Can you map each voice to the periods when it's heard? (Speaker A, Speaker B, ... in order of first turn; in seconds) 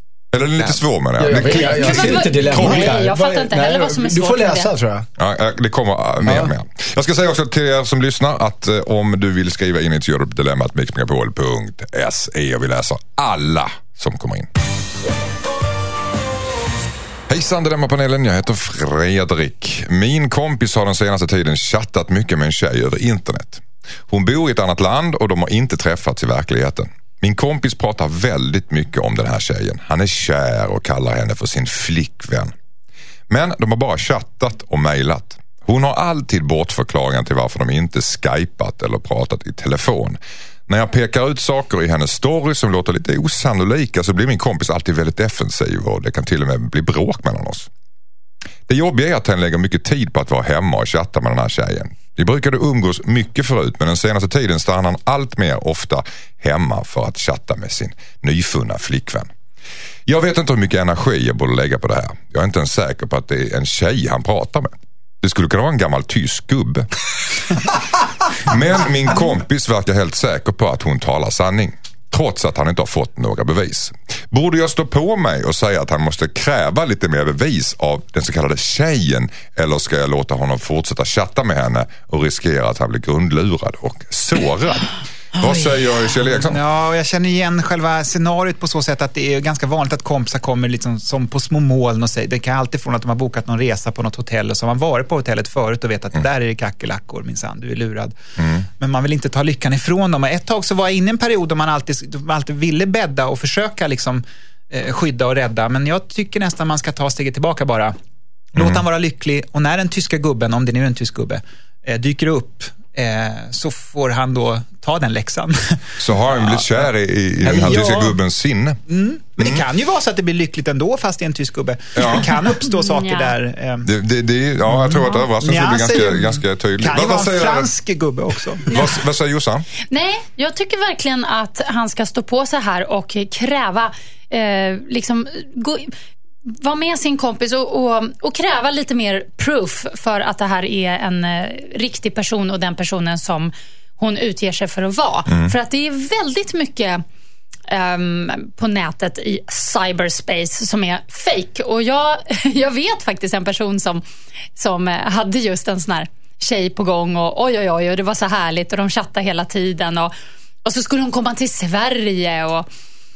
Speaker A: 0.3-3.0, 5.2-14.5, 17.3-32.5, 33.3-47.7, 48.7-59.3, 60.0-66.9, 68.3-86.6, 98.4-98.7, 108.5-108.8, 116.0-118.8, 122.0-122.2, 123.8-127.7, 128.6-129.7, 145.3-145.5
Speaker B: 1.2-5.1, 6.2-6.5
Speaker C: 1.4-4.7, 122.6-123.3, 129.9-135.9, 136.4-147.0, 147.7-154.0, 154.6-160.1, 160.6-162.7
Speaker D: 86.2-98.2, 98.8-107.9, 108.5-118.2, 118.9-123.9, 124.7-128.7